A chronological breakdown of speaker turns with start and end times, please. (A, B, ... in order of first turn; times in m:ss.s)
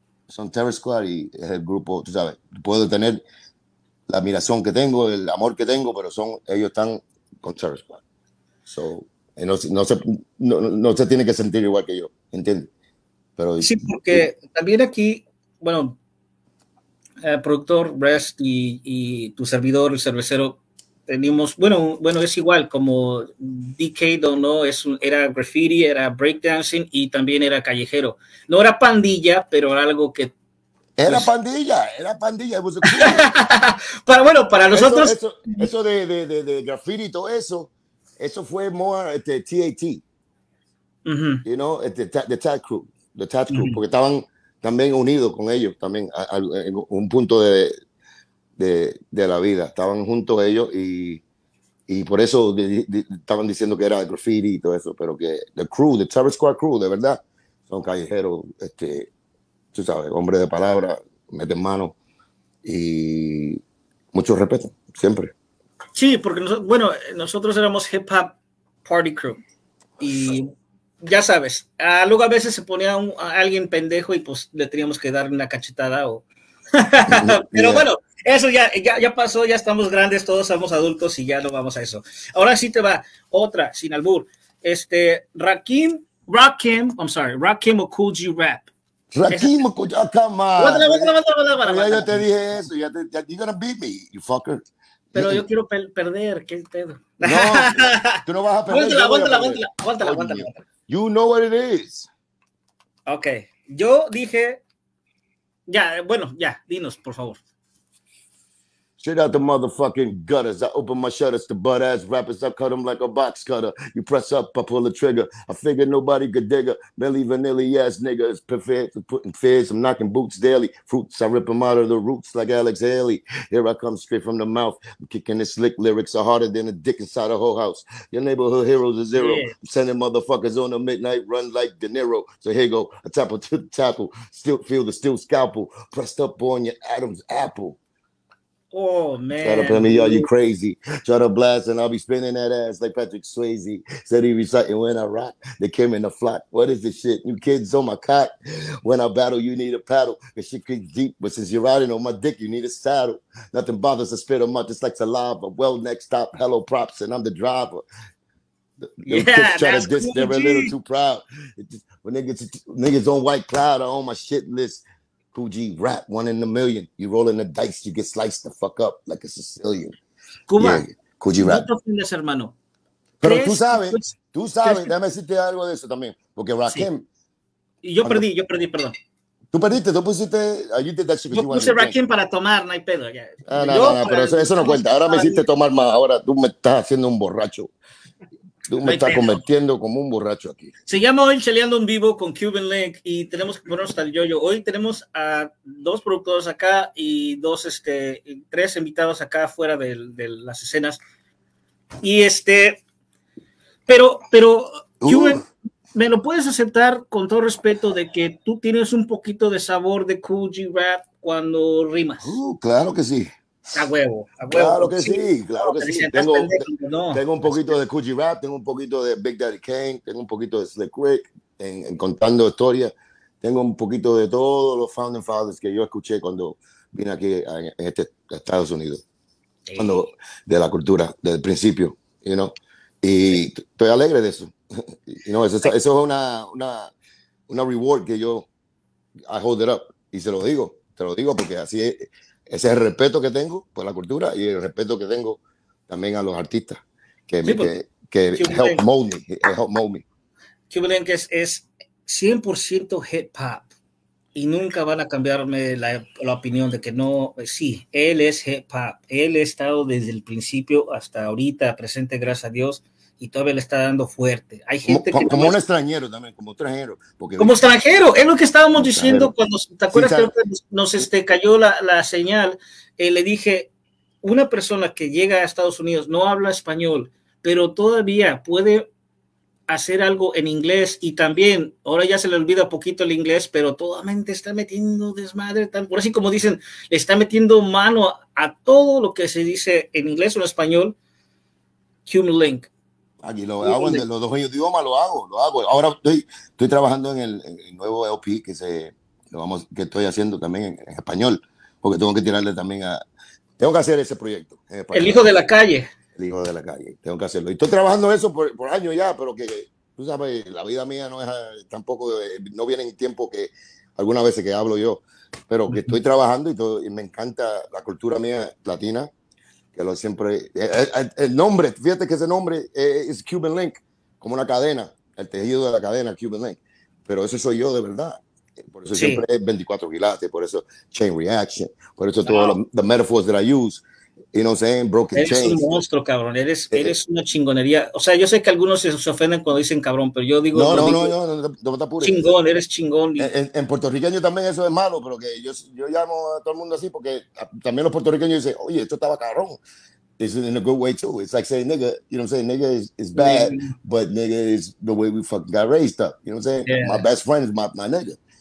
0:00.3-0:03.2 A
0:04.1-0:08.0 A
0:08.7-0:12.7 A
0:13.4-0:14.3 A
0:13.6-0:16.0 B
0:17.2-0:30.3 B
0:31.0-0:33.3 A
0:32.8-0:35.7 B
0:34.7-0:40.0 A
0:41.1-0:41.4 B
0:41.4-0:47.7 A
0:43.5-0:43.8 B
0:48.6-0:51.2 A
0:51.9-0:59.1 A
0:59.7-1:02.0 A
1:02.6-1:03.6 A
1:04.1-1:05.3 A
1:06.0-1:09.4 B
1:10.0-1:10.5 B
1:11.0-1:28.7 B
1:17.1-1:17.9 A
1:29.1-1:31.1 A
1:30.6-1:32.2 B
1:31.6-1:35.4 A
1:35.1-1:40.6 B
1:37.2-1:42.1 A
1:43.1-1:44.6 B
1:45.7-1:47.4 B
1:49.0-2:17.8 A
2:09.2-2:09.5 B
2:18.7-2:20.3 B
2:19.4-2:37.8 A
2:38.8-2:50.0 A
2:39.1-2:40.7 B
2:50.5-2:50.8 B
2:50.6-2:51.7 A
2:51.4-2:52.5 B
2:53.2-2:57.0 A
2:53.2-2:54.9 B
2:57.8-2:59.0 B
2:59.5-3:02.0 A
3:01.3-3:05.4 B
3:03.5-3:07.7 A
3:08.7-3:10.7 A
3:08.8-3:09.4 B
3:10.9-3:21.0 B
3:22.0-3:22.8 B
3:23.9-3:32.4 B
3:25.0-3:25.4 A
3:32.2-3:33.3 A
3:33.7-3:37.8 B
3:34.5-3:49.0 A
3:49.7-3:50.0 B
3:49.8-3:56.9 A
3:57.5-3:58.5 A
3:59.3-4:10.0 A
4:07.4-4:07.7 B
4:08.4-4:08.8 B
4:10.7-4:13.7 B
4:14.4-4:25.6 B
4:24.8-4:27.6 A
4:27.4-4:33.7 B
4:28.8-4:29.3 A
4:29.9-4:30.3 A
4:34.2-4:38.9 B
4:39.7-4:51.0 B
4:52.1-4:52.7 B
4:53.2-5:03.0 A
4:53.6-4:54.0 B
5:03.6-5:05.3 A
5:04.9-5:05.9 B
5:06.2-5:19.1 A
5:15.7-5:16.0 B
5:19.8-5:35.7 A
5:28.9-5:29.2 B
5:32.2-5:32.6 B
5:35.1-5:41.1 B
5:40.5-5:42.3 A
5:42.0-5:43.3 B
5:43.2-5:49.6 A
5:50.2-5:58.2 A
5:53.2-5:53.7 B
5:56.7-5:57.0 B